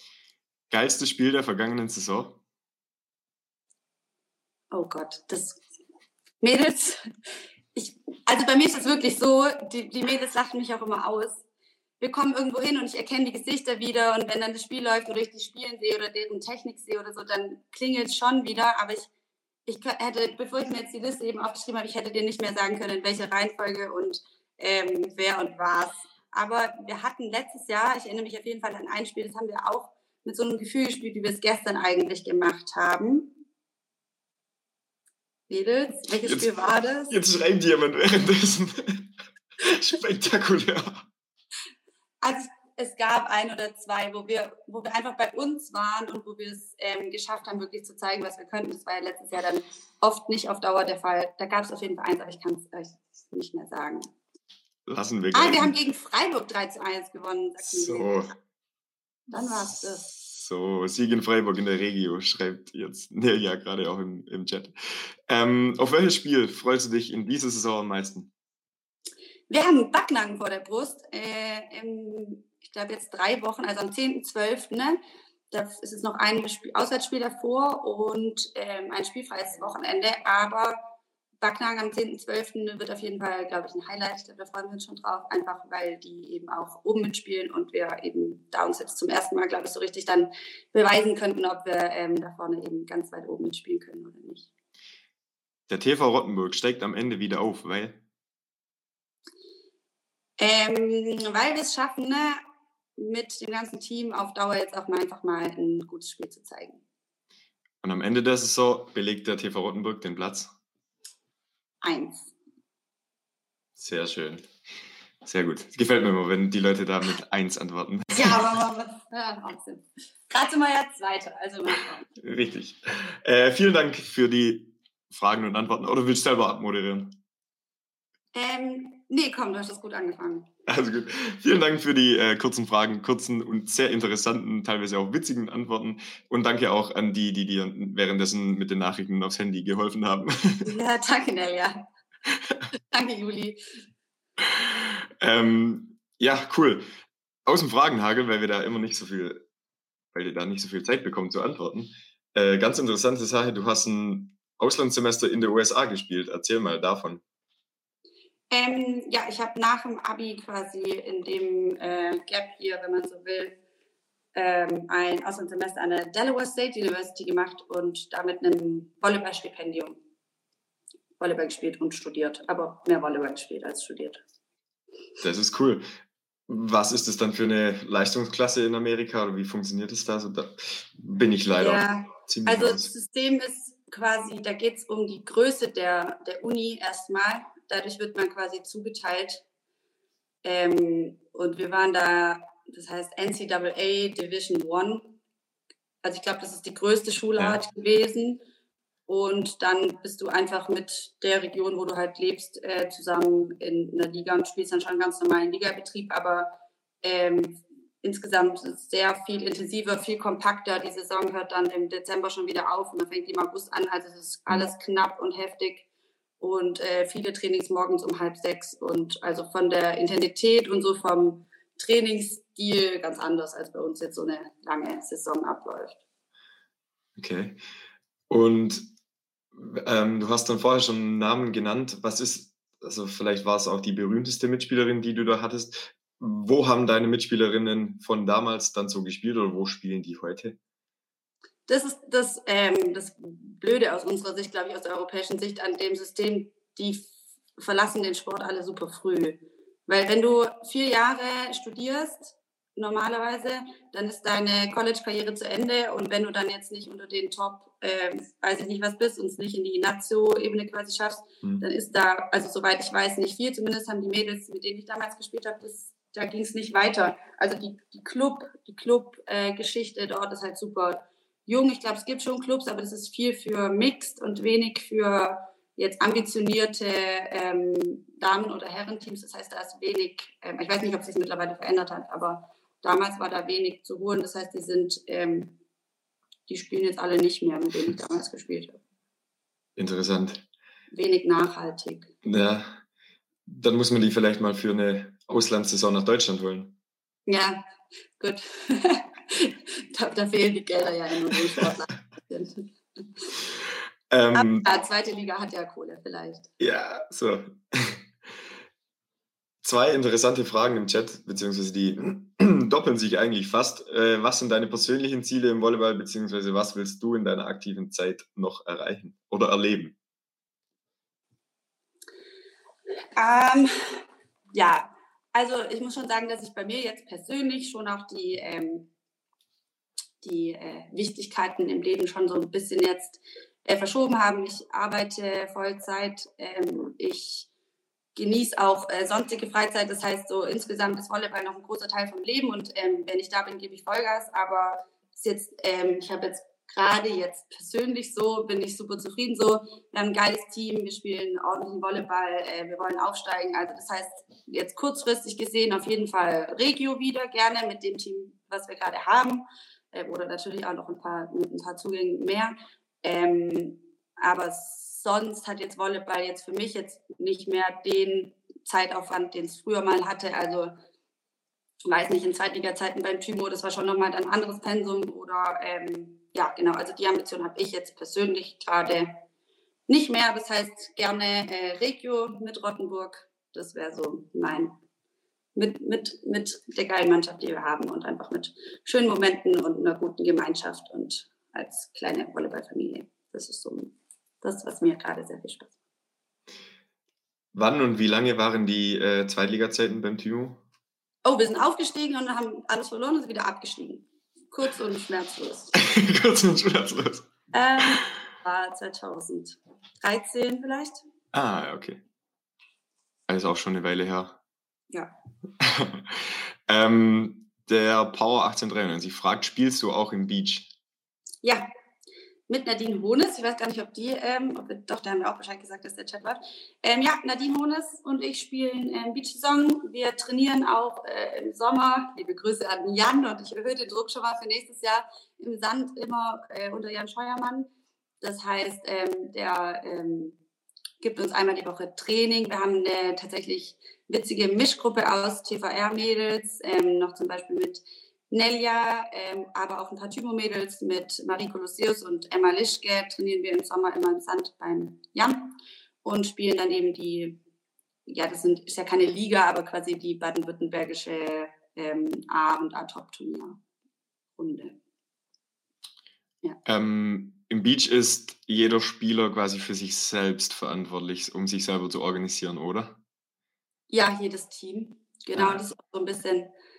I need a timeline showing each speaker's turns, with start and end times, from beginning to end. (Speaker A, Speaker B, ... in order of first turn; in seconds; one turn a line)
Speaker A: 0.7-2.4
Speaker B: 4.7-5.6
Speaker B: 6.4-7.1
Speaker B: 7.7-11.4
Speaker B: 12.0-19.1
Speaker B: 19.7-33.3
Speaker B: 35.5-37.2
Speaker A: 36.2-36.6
Speaker A: 37.1-41.0
Speaker B: 42.2-54.1
Speaker A: 54.9-55.7
Speaker B: 55.3-58.1
Speaker A: 57.6-58.3
Speaker B: 59.3-60.1
Speaker A: 59.4-68.3
Speaker B: 69.5-75.0
Speaker B: 75.5-80.8
Speaker B: 81.4-94.5
Speaker A: 95.7-98.0
Speaker B: 100.4-102.4
Speaker B: 103.0-106.8
Speaker A: 107.8-110.5
Speaker B: 111.8-112.3
Speaker A: 113.8-114.5
Speaker A: 115.2-118.4
Speaker B: 118.1-122.0
Speaker A: 122.2-127.2
Speaker B: 128.3-130.5
Speaker A: 130.7-140.7
Speaker B: 140.6-141.8
Speaker B: 142.7-143.6
Speaker A: 144.6-146.9
Speaker A: 147.4-149.4
Speaker A: 150.1-157.2
Speaker B: 158.5-163.6
Speaker B: 164.3-170.0
Speaker B: 171.2-174.2
Speaker A: 175.2-175.8
Speaker A: 176.5-182.9
Speaker B: 181.6-189.4
Speaker B: 190.4-195.1
Speaker B: 196.0-198.4
Speaker B: 199.1-215.8
Speaker B: 216.4-225.9
Speaker A: 227.2-227.6
Speaker A: 228.3-228.9
Speaker A: 229.5-240.6
Speaker B: 241.7-285.5
Speaker B: 286.5-288.8
Speaker A: 289.8-290.4
Speaker B: 290.9-292.1
Speaker A: 292.2-292.8
Speaker A: 293.4-296.7
Speaker B: 297.3-297.6
Speaker B: 298.2-302.6
Speaker A: 304.1-304.6
Speaker B: 304.3-306.5
Speaker A: 306.6-308.1
Speaker A: 309.6-319.9
Speaker B: 323.1-324.0
Speaker B: 324.5-328.9
Speaker B: 330.2-337.5
Speaker B: 338.1-370.8
Speaker B: 371.9-379.2
Speaker B: 379.9-384.7
Speaker B: 385.5-395.7
Speaker A: 397.5-400.6
Speaker B: 401.2-405.7
Speaker A: 405.7-407.3
Speaker B: 407.5-411.0
Speaker A: 411.3-412.0
Speaker A: 413.3-414.4
Speaker A: 415.6-420.7
Speaker B: 422.5-437.7
Speaker B: 438.2-440.4
Speaker B: 441.0-457.4
Speaker B: 458.1-463.6
Speaker B: 464.4-464.8
Speaker A: 466.6-473.0
Speaker B: 473.9-476.5
Speaker A: 475.3-475.6